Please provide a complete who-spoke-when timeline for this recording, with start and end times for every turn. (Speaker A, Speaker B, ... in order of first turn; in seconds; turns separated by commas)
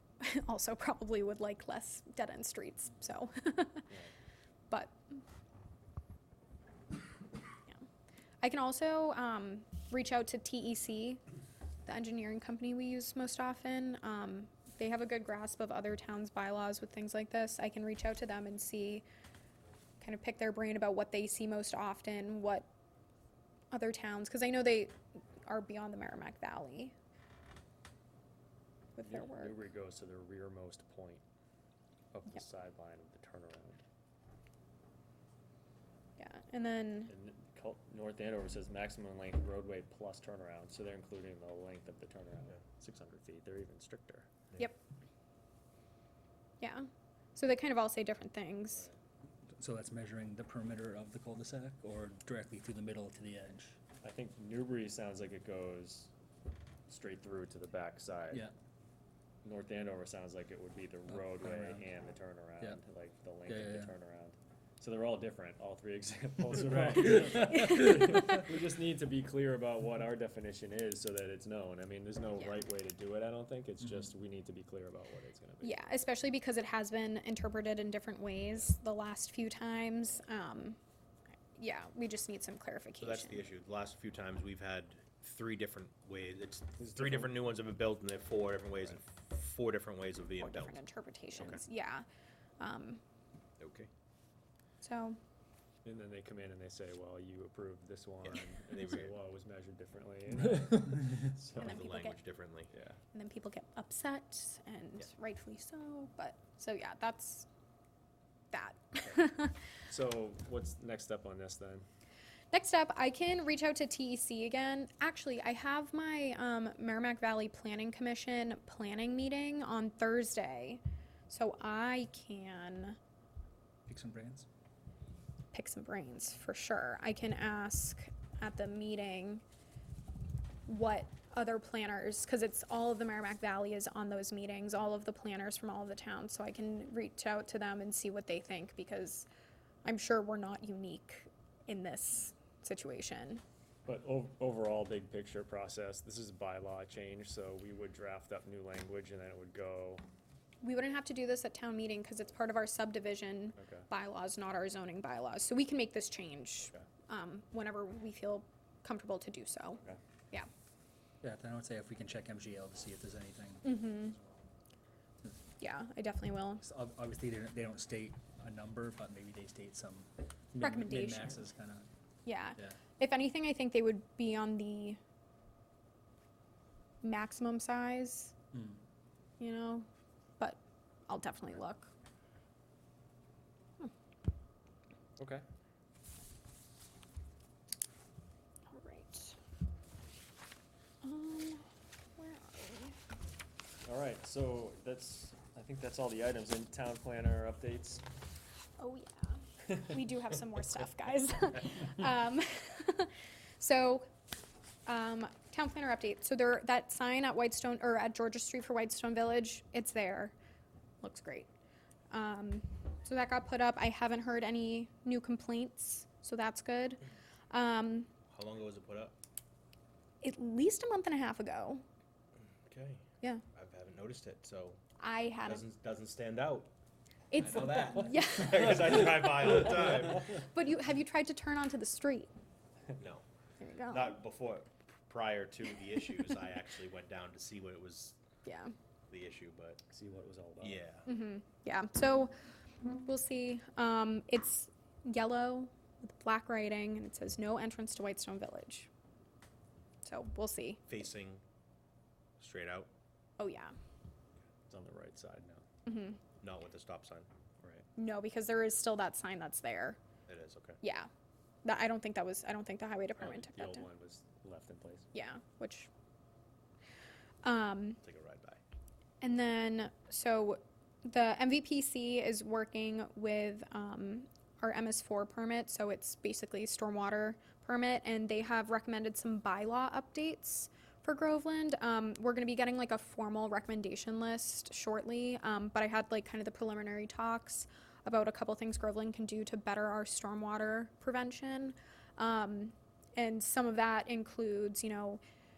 Speaker A: 0.2-3.9, Speaker A: 4.7-5.2, Speaker A: 8.4-11.2, Speaker A: 11.8-19.0, Speaker A: 20.0-22.7, Speaker A: 23.7-26.9, Speaker A: 28.9-29.6, Speaker B: 29.0-31.2, Speaker B: 32.1-33.8, Speaker A: 36.2-37.1, Speaker B: 37.1-44.5, Speaker A: 46.6-48.9, Speaker C: 49.6-53.8, Speaker B: 54.0-56.1, Speaker B: 56.9-58.5, Speaker B: 59.4-75.8, Speaker C: 61.1-61.9, Speaker C: 63.5-63.9, Speaker C: 66.8-68.3, Speaker A: 75.6-80.8, Speaker A: 81.5-83.5, Speaker D: 83.0-90.8, Speaker B: 86.8-87.3, Speaker A: 90.4-92.0, Speaker D: 91.3-91.6, Speaker A: 92.6-93.0, Speaker D: 93.6-93.9, Speaker A: 94.8-95.2, Speaker B: 95.8-101.8, Speaker D: 98.7-99.1, Speaker C: 100.8-101.3, Speaker D: 101.5-102.7, Speaker A: 101.6-102.2, Speaker B: 102.7-103.0, Speaker A: 103.1-107.5, Speaker A: 108.5-109.6, Speaker B: 109.8-111.8, Speaker A: 112.5-123.0, Speaker C: 123.9-124.5, Speaker A: 125.5-129.4, Speaker A: 130.7-139.3, Speaker A: 139.8-143.4, Speaker B: 143.8-150.0, Speaker A: 150.6-160.5, Speaker B: 153.6-153.9, Speaker C: 161.2-164.0, Speaker A: 163.6-164.2, Speaker A: 165.6-166.6, Speaker C: 166.6-171.8, Speaker A: 170.6-171.4, Speaker A: 172.2-175.0, Speaker A: 177.0-178.3, Speaker C: 178.5-178.8, Speaker A: 179.4-179.9, Speaker A: 180.4-181.9, Speaker B: 185.2-185.4, Speaker A: 188.7-189.4, Speaker A: 191.0-192.9, Speaker B: 193.8-198.0, Speaker A: 198.8-204.1, Speaker A: 204.9-210.3, Speaker A: 211.0-211.5, Speaker A: 212.1-218.1, Speaker D: 218.3-219.2, Speaker A: 220.2-221.8, Speaker D: 222.6-224.8, Speaker A: 225.0-225.6, Speaker D: 225.4-226.7, Speaker A: 227.3-229.1, Speaker D: 227.3-230.4, Speaker A: 230.3-232.3, Speaker D: 233.0-233.2, Speaker A: 233.6-234.2, Speaker D: 233.9-238.2, Speaker A: 238.4-238.7, Speaker D: 239.1-239.8, Speaker B: 239.9-240.9, Speaker D: 240.6-241.1, Speaker A: 241.1-248.9, Speaker A: 250.0-250.9, Speaker D: 250.9-251.4, Speaker D: 252.4-252.9, Speaker A: 253.4-253.7, Speaker B: 254.7-255.6, Speaker A: 255.8-256.2, Speaker D: 256.4-257.3, Speaker A: 257.9-260.0, Speaker D: 260.3-260.8, Speaker A: 260.8-261.1, Speaker A: 261.6-263.9, Speaker B: 263.2-265.1, Speaker A: 265.1-265.9, Speaker A: 267.4-268.0, Speaker D: 268.0-268.6, Speaker A: 269.2-295.2